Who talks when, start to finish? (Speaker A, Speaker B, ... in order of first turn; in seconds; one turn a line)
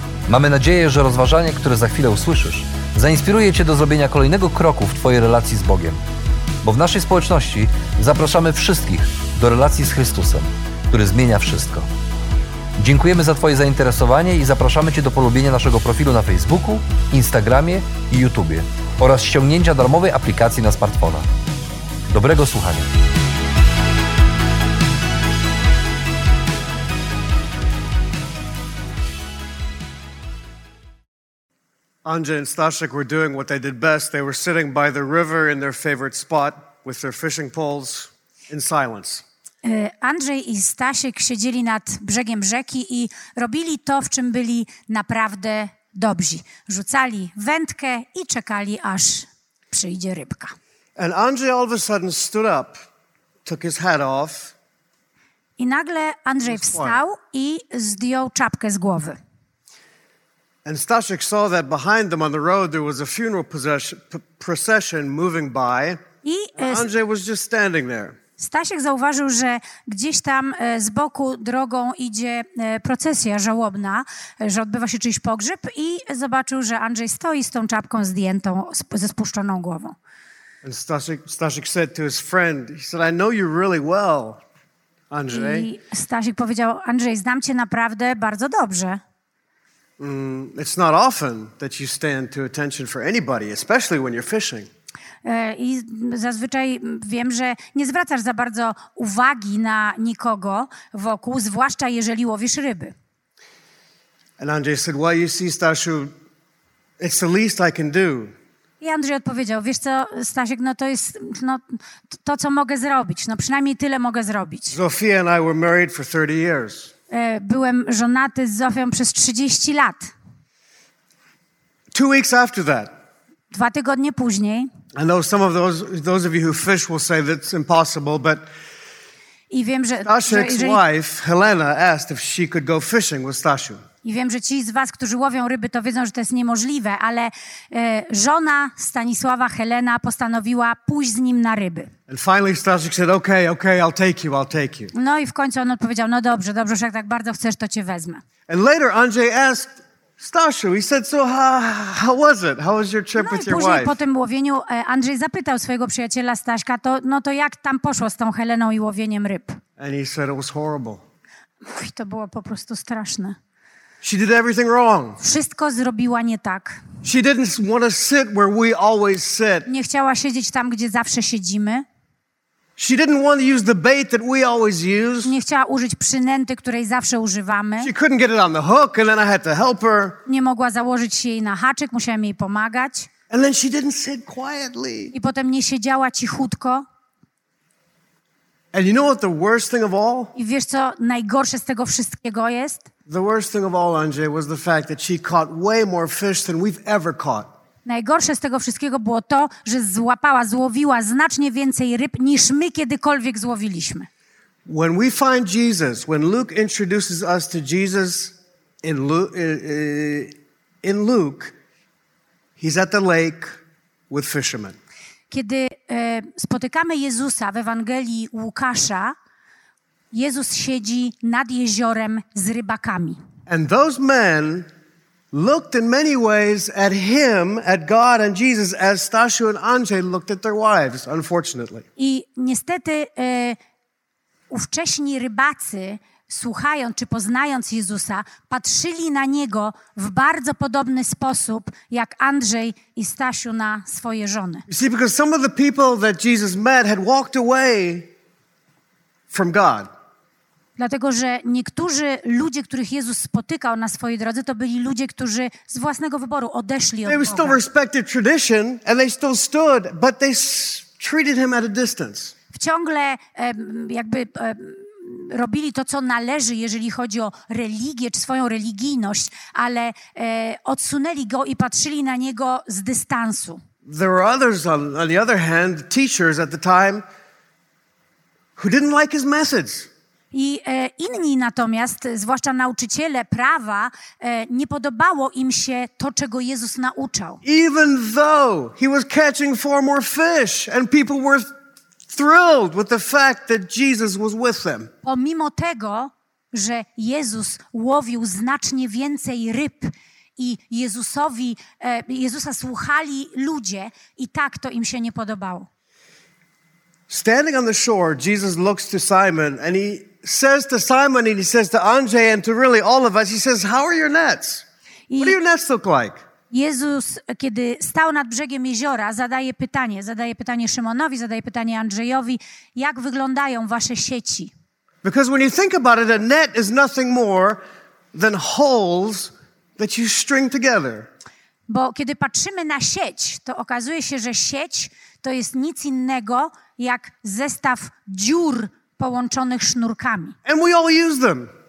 Speaker A: 0.3-6.0
Speaker A: 6.6-11.9
Speaker A: 12.8-21.3
Speaker A: 22.1-22.9
Speaker B: 32.0-39.2
Speaker C: 39.6-50.6
Speaker B: 51.0-52.8
Speaker B: 53.5-54.5
Speaker C: 55.6-59.2
Speaker B: 56.4-57.0
Speaker B: 60.6-66.0
Speaker C: 66.2-66.9
Speaker B: 66.6-68.2
Speaker C: 68.4-80.0
Speaker B: 80.6-84.4
Speaker B: 85.1-85.7
Speaker C: 85.3-89.0
Speaker B: 90.0-94.7
Speaker C: 95.2-102.9
Speaker B: 104.4-106.1
Speaker B: 107.0-108.3
Speaker C: 108.8-114.8
Speaker B: 114.7-116.9
Speaker C: 117.1-120.1
Speaker B: 121.9-122.9
Speaker C: 123.5-124.7
Speaker B: 124.9-128.4
Speaker C: 129.5-130.8
Speaker B: 130.0-133.8
Speaker C: 134.0-141.9
Speaker B: 142.1-144.9
Speaker C: 144.9-148.2
Speaker B: 148.5-154.0
Speaker C: 153.2-159.6
Speaker B: 159.8-161.0
Speaker C: 161.6-163.4
Speaker B: 164.0-165.2
Speaker C: 165.2-166.8
Speaker B: 167.0-169.7
Speaker C: 169.7-171.8
Speaker B: 172.8-175.3
Speaker C: 175.2-177.9
Speaker B: 177.8-180.2
Speaker C: 180.3-183.1
Speaker B: 183.3-185.1
Speaker C: 185.1-186.8
Speaker B: 188.7-190.3
Speaker C: 190.3-192.9
Speaker B: 193.1-197.5
Speaker C: 197.8-204.1
Speaker B: 204.7-211.6
Speaker B: 212.6-213.6
Speaker B: 214.1-214.8
Speaker C: 215.3-219.2
Speaker C: 220.1-223.2
Speaker B: 223.5-224.7
Speaker B: 225.3-231.8
Speaker C: 232.0-233.6
Speaker C: 234.5-244.7
Speaker B: 244.7-248.1
Speaker B: 249.3-249.9
Speaker C: 250.8-257.6
Speaker B: 257.1-262.3
Speaker C: 262.5-273.6
Speaker B: 273.9-277.0
Speaker B: 278.6-279.9
Speaker C: 280.3-287.4
Speaker B: 287.4-291.5
Speaker B: 292.1-294.9
Speaker C: 295.0-305.7
Speaker B: 307.1-314.6
Speaker C: 315.1-315.4
Speaker B: 315.2-316.2
Speaker C: 316.5-324.5
Speaker B: 325.0-327.6
Speaker B: 328.1-331.1
Speaker C: 331.7-340.4
Speaker B: 340.4-341.5